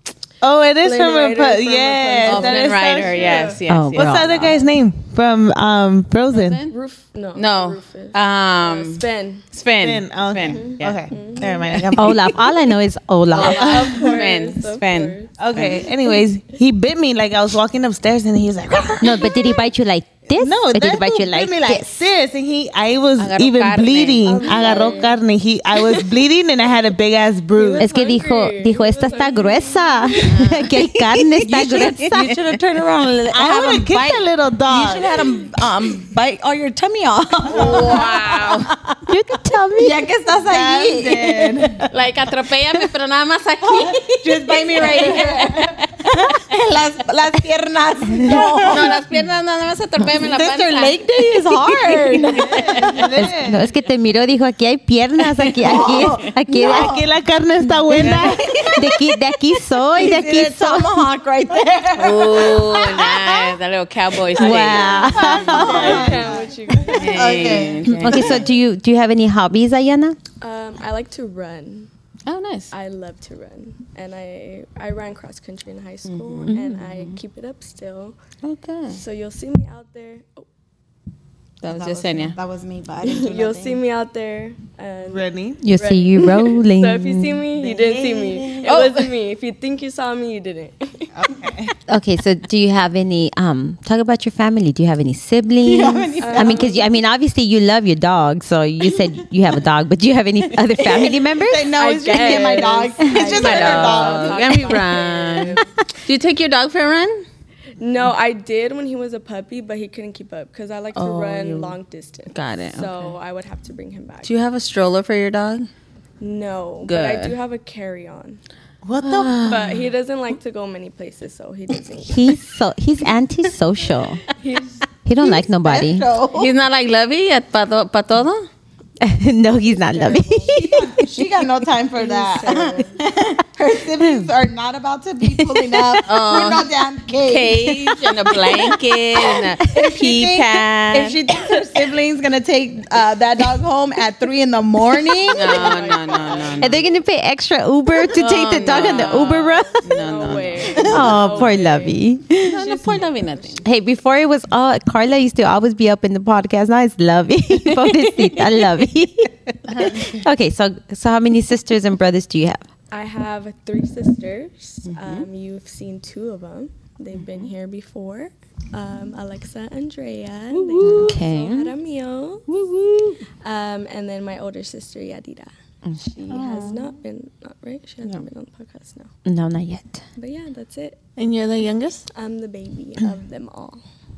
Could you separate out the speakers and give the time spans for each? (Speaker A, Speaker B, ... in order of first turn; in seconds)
Speaker A: 0.4-6.6, 9.8-12.4, 13.4-14.2, 15.4-19.4, 20.4-27.9, 33.3-35.2, 37.6-37.9, 40.4-41.9, 44.8-45.7, 52.9-53.6, 56.5-58.4, 65.5-66.4, 85.1-85.6, 87.6-88.5, 91.1-91.7, 118.8-119.6, 176.3-176.6, 181.2-182.0
Speaker B: 0.8-3.6, 6.7-9.4, 10.4-11.8, 13.3-16.1, 24.2-25.2, 27.6-30.3, 64.3-67.6, 70.4-71.9, 72.7-78.2, 78.9-80.5, 83.0-91.1, 96.2-97.0, 100.8-101.2, 101.7-105.7, 107.8-114.3, 116.2-118.4, 119.3-122.4, 123.9-124.8, 129.7-130.6, 132.0-133.0, 145.3-146.7, 148.7-153.5, 162.9-172.5, 173.4-175.5, 176.1-179.1, 180.2-181.0, 182.1-183.8
Speaker C: 2.2-4.6, 6.3-6.7, 7.3-11.1, 13.3-15.8, 23.2-25.0, 30.2-30.7, 31.7-32.4, 37.5-38.7, 41.9-46.0, 48.6-51.0, 51.8-53.1, 57.9-58.5, 62.0-66.0, 66.8-68.5, 72.2-72.7, 76.0-77.2, 78.4-79.0, 81.6-82.4, 88.6-89.1, 103.2-107.2, 110.9-111.8, 112.3-113.1, 114.2-115.7, 116.8-117.3, 126.3-128.5, 136.1-136.7, 137.2-141.2, 145.3-146.8, 148.1-149.3, 149.8-151.5, 152.4-153.6, 157.6-158.3, 159.7-160.2, 164.8-165.3, 170.5-171.2
Speaker D: 3.7-4.5, 12.0-13.8, 19.0-21.9, 27.8-32.3, 39.1-40.0, 53.1-56.9, 58.7-60.9, 64.3-66.1, 67.9-70.2, 85.6-87.5, 91.9-102.3, 122.1-124.2, 125.0-126.1, 129.0-131.2, 134.0-134.3, 135.2-136.1, 146.6-149.8, 150.8-152.5, 153.6-162.6, 170.8-171.7, 172.5-173.2, 175.8-176.7, 179.2-180.0
Speaker E: 31.3-39.0, 39.8-41.8, 43.6-49.0, 50.1-53.1, 55.4-57.1, 57.9-59.1, 59.9-63.5, 65.2-68.3, 81.6-83.8, 95.6-96.7, 101.3-104.7, 125.3-126.5, 130.5-137.8, 139.6-145.8, 150.8-151.1